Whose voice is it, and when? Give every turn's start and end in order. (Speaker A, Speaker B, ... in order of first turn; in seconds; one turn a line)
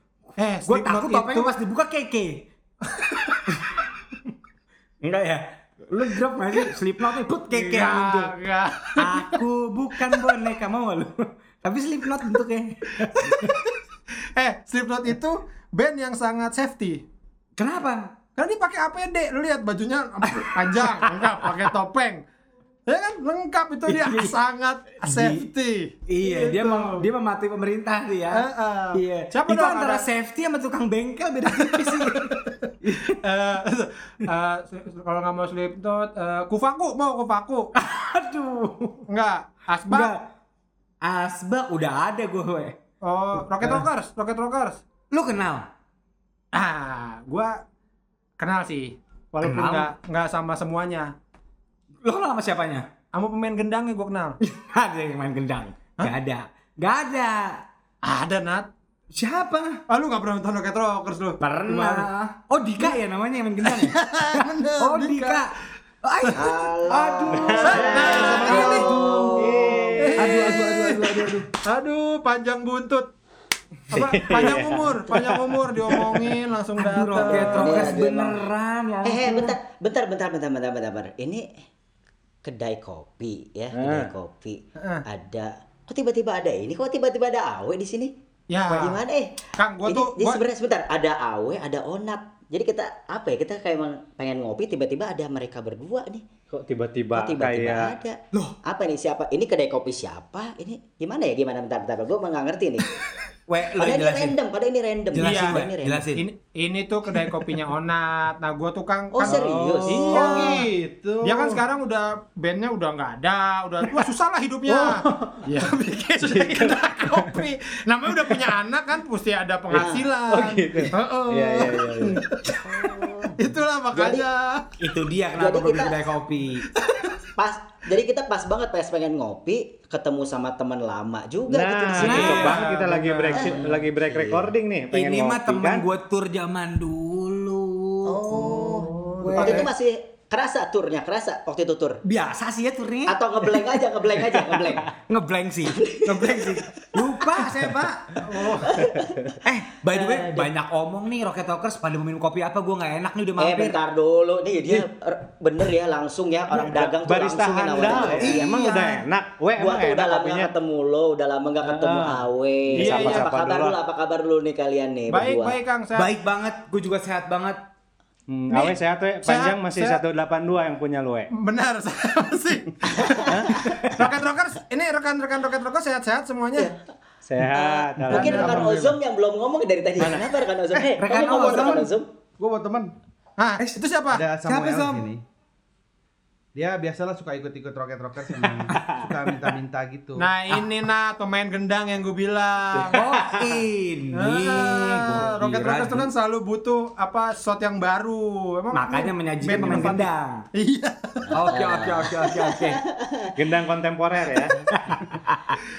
Speaker A: 0.4-1.6
Speaker B: 0.7-2.5
Speaker A: 3.0-3.4
Speaker B: 5.0-8.3
Speaker A: 7.5-9.4
Speaker B: 9.0-13.6
Speaker A: 13.2-13.5
Speaker A: 14.4-17.0
Speaker B: 17.6-18.1
Speaker A: 18.4-22.2
Speaker B: 20.3-21.7
Speaker A: 22.9-27.0
Speaker B: 23.9-24.3
Speaker B: 25.0-25.5
Speaker B: 26.1-33.2
Speaker A: 28.3-30.1
Speaker A: 31.6-37.7
Speaker B: 37.8-39.0
Speaker A: 39.1-40.1
Speaker B: 39.9-40.2
Speaker B: 41.0-42.8
Speaker A: 43.0-44.8
Speaker B: 45.1-45.7
Speaker A: 46.5-47.6
Speaker A: 48.4-51.1
Speaker B: 49.4-49.9
Speaker B: 52.0-52.9
Speaker A: 53.1-54.4
Speaker B: 54.4-57.6
Speaker A: 58.0-58.7
Speaker B: 59.1-59.8
Speaker A: 59.9-62.1
Speaker B: 61.4-65.5
Speaker A: 63.6-65.5
Speaker B: 66.0-71.5
Speaker C: 66.3-70.0
Speaker D: 67.3-67.8
Speaker A: 67.6-68.9
Speaker E: 68.0-68.9
Speaker D: 69.3-70.5
Speaker A: 70.0-73.1
Speaker A: 73.9-78.0
Speaker D: 73.9-76.3
Speaker B: 76.8-79.5
Speaker C: 77.4-78.4
Speaker C: 79.0-81.5
Speaker C: 82.4-88.1
Speaker D: 83.7-84.1
Speaker A: 88.5-89.0
Speaker C: 88.7-89.3
Speaker A: 89.6-90.4
Speaker C: 89.8-96.2
Speaker D: 96.5-97.9
Speaker C: 97.1-102.9
Speaker B: 103.5-104.3
Speaker C: 103.8-106.0
Speaker B: 105.1-106.2
Speaker A: 105.2-105.6
Speaker A: 106.2-110.7
Speaker C: 109.1-110.4
Speaker D: 109.3-109.7
Speaker E: 110.0-111.6
Speaker A: 111.2-122.6
Speaker D: 114.7-115.4
Speaker D: 116.2-117.5
Speaker D: 119.7-122.2
Speaker C: 119.8-120.0
Speaker C: 122.7-123.3
Speaker A: 123.4-124.7
Speaker C: 123.9-124.2
Speaker B: 124.8-126.7
Speaker C: 125.4-126.0
Speaker C: 127.4-132.6
Speaker D: 131.5-135.8
Speaker A: 132.0-133.5
Speaker B: 132.0-132.7
Speaker C: 133.3-134.5
Speaker B: 134.9-138.4
Speaker C: 138.1-142.0
Speaker A: 138.3-139.7
Speaker B: 139.2-139.7
Speaker B: 142.0-148.2
Speaker C: 143.1-144.8
Speaker A: 148.2-148.7
Speaker C: 148.6-149.2
Speaker B: 149.4-153.8
Speaker C: 149.9-150.5
Speaker C: 153.4-159.0
Speaker D: 156.7-160.5
Speaker B: 158.2-158.5
Speaker C: 159.6-165.6
Speaker D: 161.6-163.8
Speaker A: 162.8-163.2
Speaker A: 165.1-166.1
Speaker B: 166.0-167.6
Speaker D: 168.3-171.3
Speaker A: 168.5-170.0
Speaker A: 171.3-176.7
Speaker D: 173.3-173.9
Speaker D: 177.2-178.9
Speaker C: 177.5-182.1
Speaker A: 178.1-179.0
Speaker E: 180.7-182.9
Speaker B: 181.0-181.9
Speaker A: 183.4-184.3
Speaker E: 184.1-185.2
Speaker B: 184.4-185.1
Speaker E: 186.6-190.3
Speaker A: 190.2-193.1
Speaker D: 192.8-193.5
Speaker B: 192.9-196.1
Speaker A: 194.2-201.3
Speaker B: 198.7-200.4
Speaker C: 201.3-203.3
Speaker B: 201.3-202.8
Speaker D: 203.4-204.7
Speaker B: 204.7-205.5